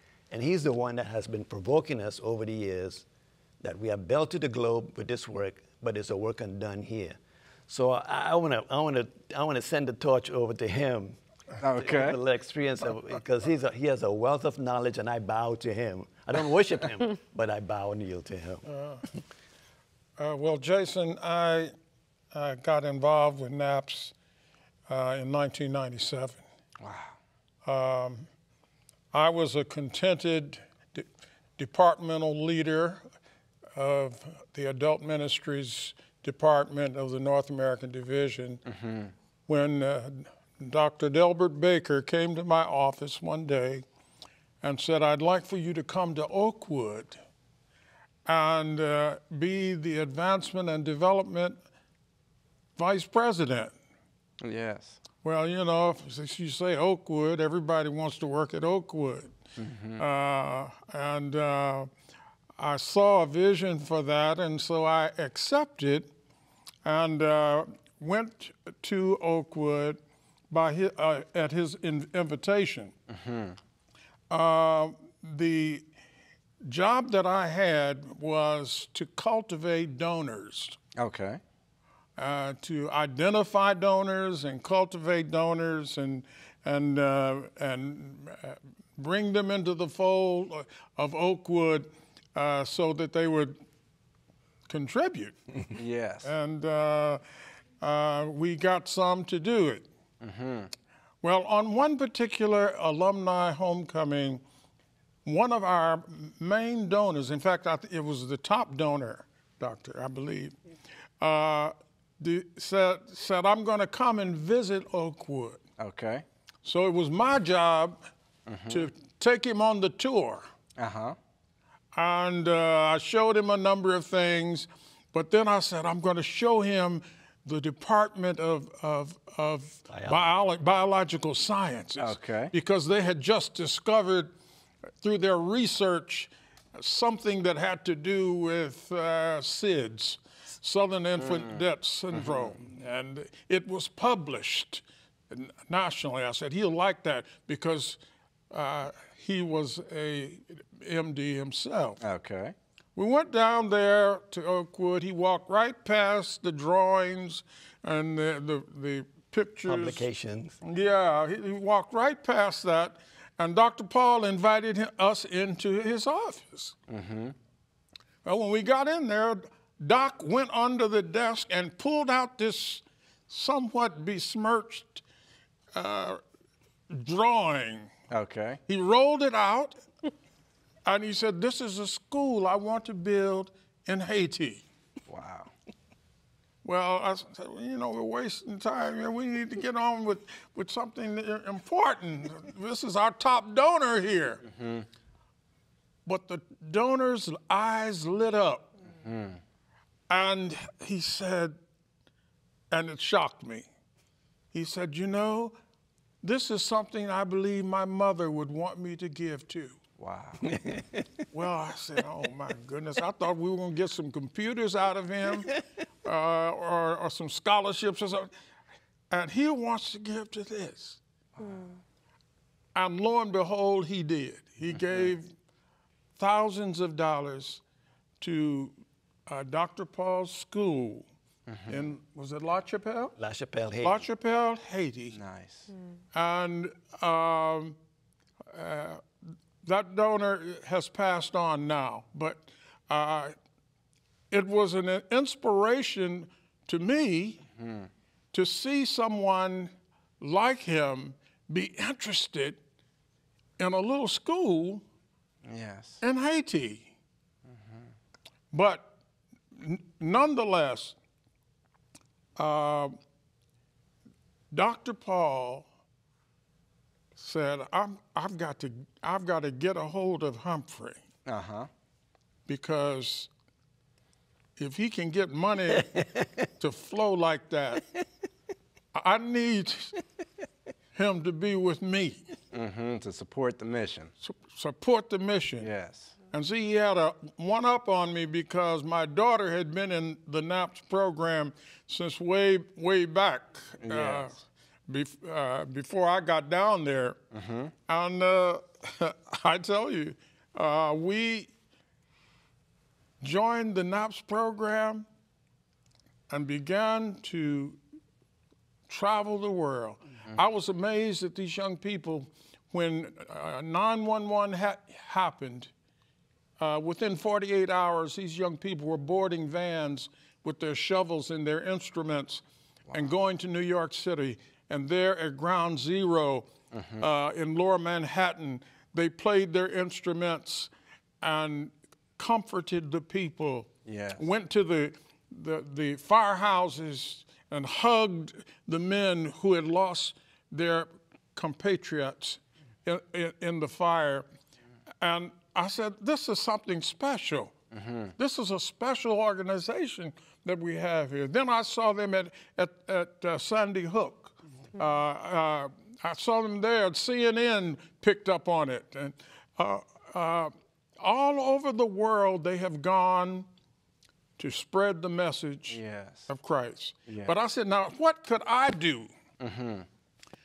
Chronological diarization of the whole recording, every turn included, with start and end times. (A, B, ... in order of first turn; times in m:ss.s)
0:00.3-0:03.0 A
0:03.6-0:07.2 A
0:07.7-0:11.2 A
0:11.6-0:12.2 B
0:11.8-0:19.2 A
0:18.7-0:19.0 C
0:20.2-0:21.7 C
0:22.3-0:24.1 C
0:24.9-0:26.4 C
0:26.8-0:27.2 B
0:27.6-0:28.3 C
0:29.1-0:33.0 C
0:33.7-0:38.6 C
0:38.7-0:39.1 B
0:39.5-0:43.8 C
0:44.6-0:47.2 C
0:48.3-0:51.6 C
0:52.8-0:53.8 C
0:54.4-0:55.0 B
0:55.2-0:59.4 C
0:59.6-1:00.0 B
1:00.0-1:01.9 C
1:02.6-1:06.1 C
1:06.8-1:13.0 C
1:13.1-1:13.6 B
1:14.3-1:15.9 C
1:16.6-1:20.8 C
1:21.0-1:21.4 B
1:22.2-1:33.6 C
1:34.7-1:35.4 C
1:35.8-1:36.3 B
1:36.2-1:37.2 C
1:37.8-1:39.9 C
1:40.2-1:40.7 B
1:41.2-1:44.4 C
1:45.2-1:50.6 C
1:51.2-1:55.6 C
1:55.8-1:56.2 B
1:56.6-1:58.0 C
1:58.5-1:58.9 B
1:58.7-2:00.5 C
2:00.8-2:01.2 B
2:01.9-2:14.3 C
2:09.9-2:10.3 A
2:12.0-2:12.5 B
2:15.0-2:28.0 C
2:21.2-2:21.6 B
2:22.2-2:22.5 B
2:28.5-2:32.0 C
2:32.0-2:32.5 B
2:33.0-2:40.0 C
2:39.7-2:40.6 A
2:40.6-2:46.8 C
2:46.9-2:47.4 B
2:48.2-2:55.0 C
2:55.7-2:56.2 C
2:56.9-2:57.9 C
2:58.1-2:58.6 B
2:58.7-2:59.8 C
3:00.8-3:04.6 C
3:05.1-3:05.5 B
3:06.6-3:14.4 C
3:14.4-3:14.9 B
3:16.1-3:18.7 C
3:19.0-3:19.4 B
3:20.1-3:21.6 C
3:22.7-3:23.7 C
3:24.5-3:25.6 C
3:26.2-3:29.8 C
3:30.0-3:30.6 B
3:30.5-3:30.8 A
3:31.3-3:35.5 C
3:36.0-3:38.3 C
3:39.1-3:41.0 C
3:41.4-3:41.6 B
3:42.8-3:45.3 C
3:44.8-3:45.1 B
3:46.2-3:47.6 C
3:48.2-3:48.8 C
3:49.3-3:51.1 C
3:51.5-3:51.8 B
3:51.7-3:53.1 C
3:53.2-3:54.0 A
3:53.8-3:55.2 C
3:55.1-3:55.7 B
3:56.1-3:57.8 C
3:58.5-3:59.1 C
3:59.6-4:03.4 C
4:04.3-4:07.4 C
4:07.6-4:07.9 B
4:08.3-4:12.6 C
4:13.6-4:14.8 C
4:15.5-4:16.0 B
4:16.0-4:16.9 C
4:17.5-4:17.9 B
4:18.5-4:18.9 C
4:19.5-4:21.0 C
4:22.4-4:23.0 C
4:24.5-4:25.7 C
4:27.2-4:31.1 C
4:31.2-4:31.7 B
4:32.5-4:33.3 C
4:34.6-4:37.9 C
4:38.9-4:40.0 C
4:40.9-4:42.2 C
4:42.5-4:44.1 B
4:44.2-4:45.7 C
4:45.6-4:46.2 B
4:46.3-4:54.3 C
4:53.8-4:54.4 B
4:54.9-4:57.2 C
4:57.3-4:57.7 B
4:57.9-5:01.5 C
5:03.2-5:05.1 C
5:06.3-5:07.8 C
5:08.9-5:15.7 C
5:16.6-5:44.3 C
5:26.7-5:27.1 B
5:33.8-5:34.2 B
5:45.0-5:47.6 C
5:47.7-5:48.1 B
5:48.2-6:03.5 C
6:04.4-6:05.8 C
6:05.7-6:06.3 B
6:06.3-6:09.1 C
6:07.1-6:07.3 B
6:09.4-6:09.9 B